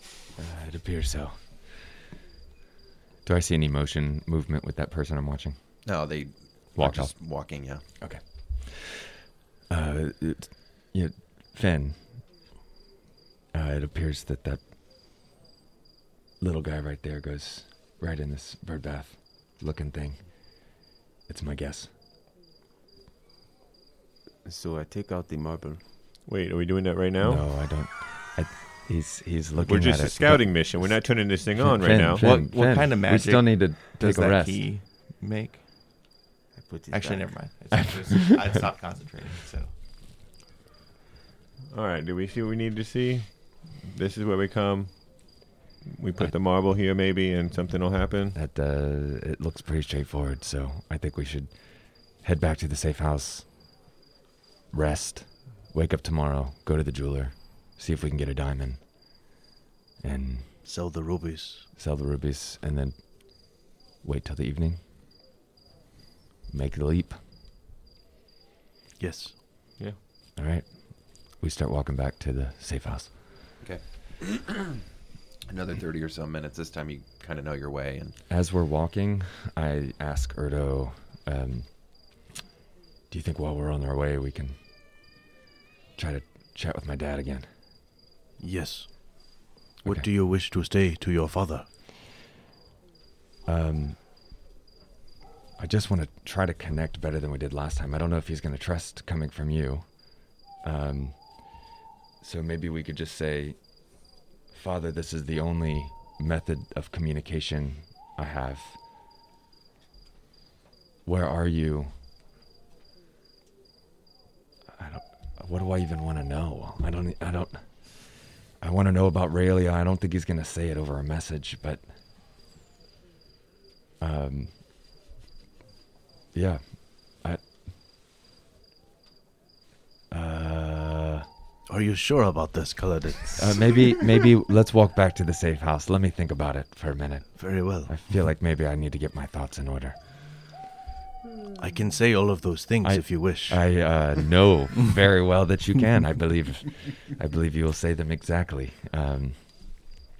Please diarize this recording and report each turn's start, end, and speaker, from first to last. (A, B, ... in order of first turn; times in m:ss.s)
0:00.4-0:01.6 A
0:03.2-0:05.6 A
0:05.8-0:07.8 B
0:06.8-0:07.1 A
0:08.0-0:09.1 A
0:09.7-0:12.0 A
0:13.5-0:14.6 A
0:16.4-0:20.6 A
0:21.3-0:21.9 A
0:24.4-0:25.8 C
0:26.3-0:27.4 D
0:27.2-0:34.6 A
0:29.6-0:32.2 D
0:32.2-0:35.7 E
0:36.5-0:37.3 C
0:36.9-0:39.7 E
0:41.7-0:48.4 D
0:48.3-0:53.5 A
0:54.7-0:58.8 A
1:00.0-1:00.5 A
1:00.6-1:01.7 F
1:01.8-1:04.8 A
1:06.5-1:07.2 A
1:09.0-1:09.4 F
1:10.4-1:13.2 A
1:13.6-1:14.7 B
1:15.5-1:18.2 B
1:18.3-1:21.7 A
1:23.1-1:24.6 A
1:26.0-1:27.5 A
1:28.4-1:31.6 F
1:33.4-1:34.0 A
1:35.6-1:41.6 A
1:42.2-1:43.6 A
1:44.5-1:48.8 A
1:51.0-1:51.9 A
1:54.7-1:57.9 A
1:58.6-2:01.8 A
2:04.0-2:04.5 A
2:06.3-2:07.4 A
2:10.1-2:11.2 A
2:11.7-2:13.9 F
2:13.4-2:20.0 A
2:17.3-2:18.0 F
2:21.6-2:23.6 F
2:22.8-2:29.9 A